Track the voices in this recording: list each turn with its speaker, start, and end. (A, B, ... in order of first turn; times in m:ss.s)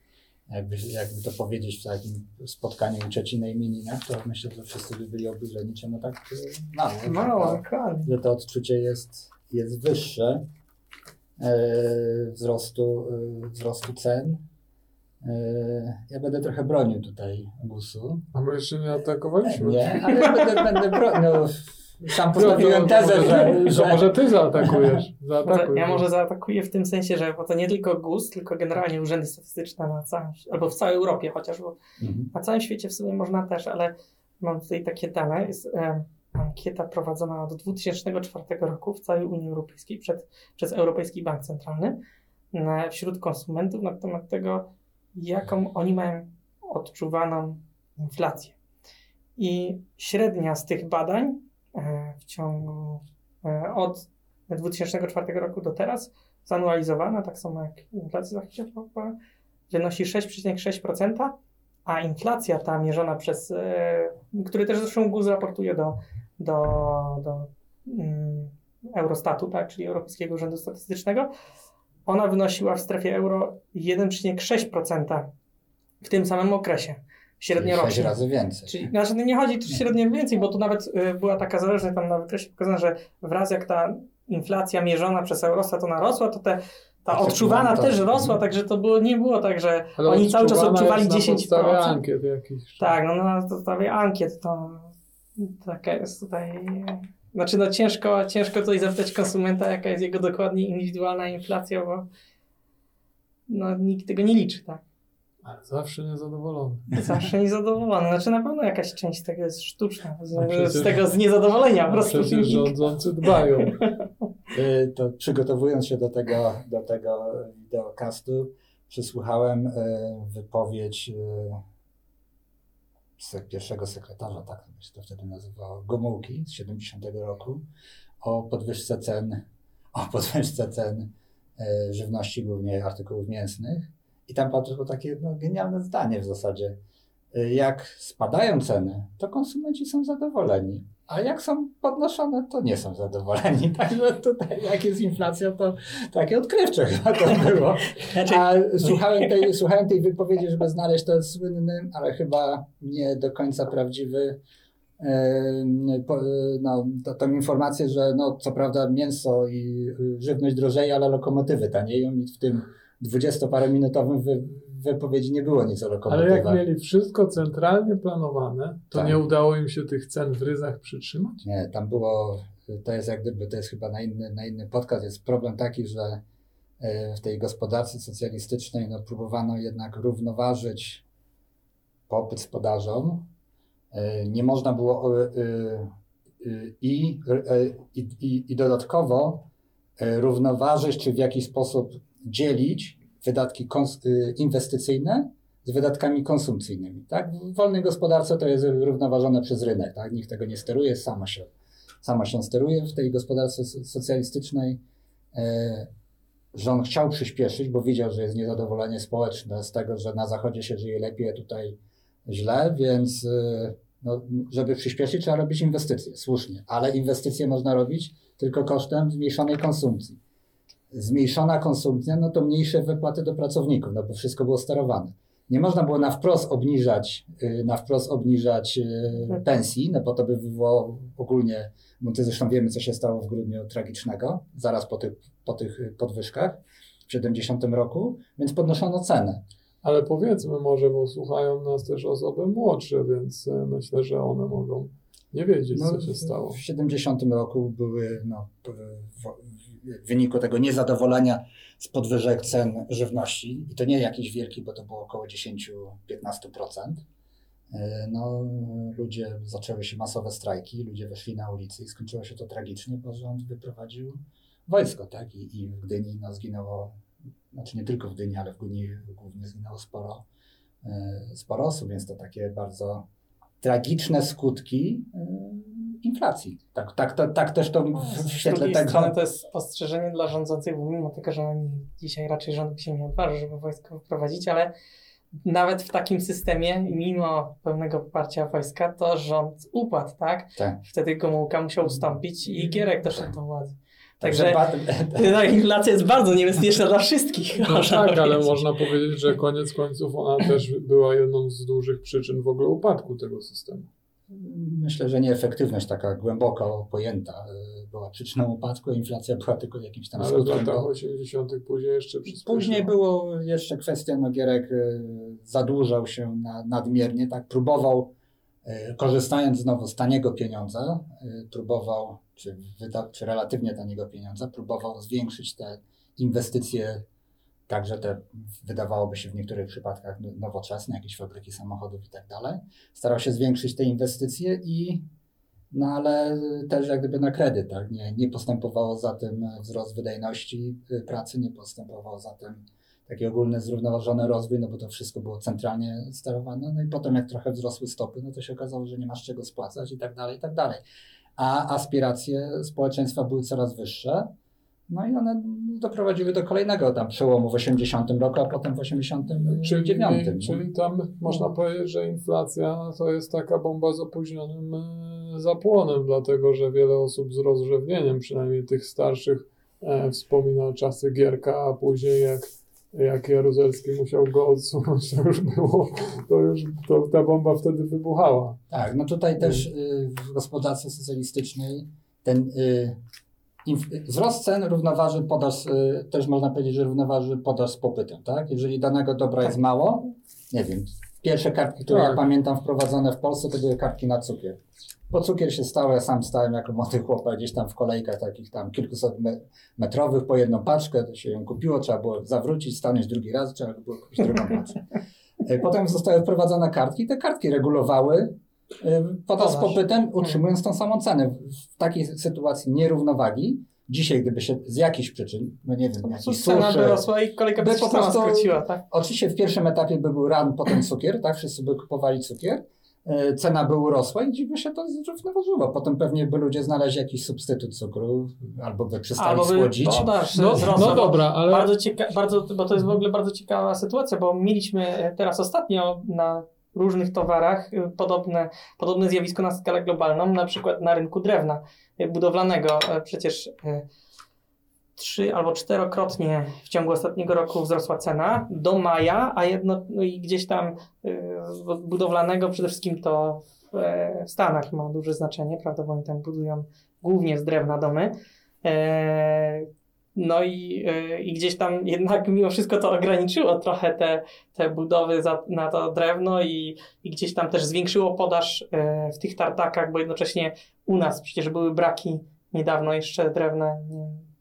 0:00.5-0:10.4 A
0:07.0-0:08.1 B
0:11.4-0:14.4 A
0:15.2-0:18.3 A
0:18.3-0:20.1 C
0:19.5-0:24.1 A
0:20.2-0:20.7 B
0:22.3-0:26.1 C
0:25.5-0:31.8 B
0:32.0-0:32.3 A
0:32.3-0:42.0 B
0:42.5-0:48.6 B
0:49.4-0:59.2 B
0:59.7-1:01.3 B
1:01.9-1:11.3 B
1:12.1-1:15.3 B
1:16.0-1:32.0 B
1:17.5-1:18.9 A
1:27.1-1:28.4 A
1:30.0-1:32.9 C
1:32.8-1:42.1 B
1:43.5-1:44.8 B
1:45.4-1:47.0 C
1:47.0-1:52.9 B
1:50.4-1:51.0 C
1:51.9-1:53.8 C
1:53.6-1:53.9 B
1:54.5-2:01.6 A
2:03.2-2:07.6 A
2:08.2-2:16.8 A
2:17.3-2:34.4 A
2:28.1-2:28.4 B
2:35.0-2:46.6 A
2:46.1-2:51.4 C
2:51.4-2:56.2 A
2:56.8-3:01.0 A
3:02.1-3:03.3 A
3:03.9-3:05.9 A
3:06.4-3:09.5 A
3:10.0-3:21.5 A
3:22.0-3:24.8 A
3:25.3-3:25.9 A
3:26.5-3:40.2 A
3:40.9-3:59.4 A
3:59.8-4:06.6 C
4:05.7-4:17.0 A
4:17.7-4:27.0 A
4:27.5-4:30.2 A
4:30.8-4:33.0 A
4:33.6-4:39.2 A
4:38.0-4:44.7 B
4:45.4-4:54.6 B
4:54.2-4:55.4 A
4:55.2-4:58.6 B
4:57.6-5:03.9 C
5:04.3-5:10.9 A
5:10.2-5:12.9 C
5:12.3-5:18.1 A
5:18.6-5:27.0 A
5:27.7-5:35.0 A
5:35.7-5:50.8 A
5:51.4-5:54.3 A
5:54.9-6:00.6 A
5:59.5-6:18.6 C
6:18.7-6:23.0 A
6:23.6-6:34.6 A
6:31.9-6:32.2 C
6:35.1-6:44.8 A
6:45.4-6:57.0 A
6:49.4-6:50.4 B
6:56.0-6:58.8 B
6:57.6-7:10.2 A
7:09.2-7:23.9 B
7:10.4-7:11.7 C
7:25.0-7:38.1 B
7:38.6-7:54.3 B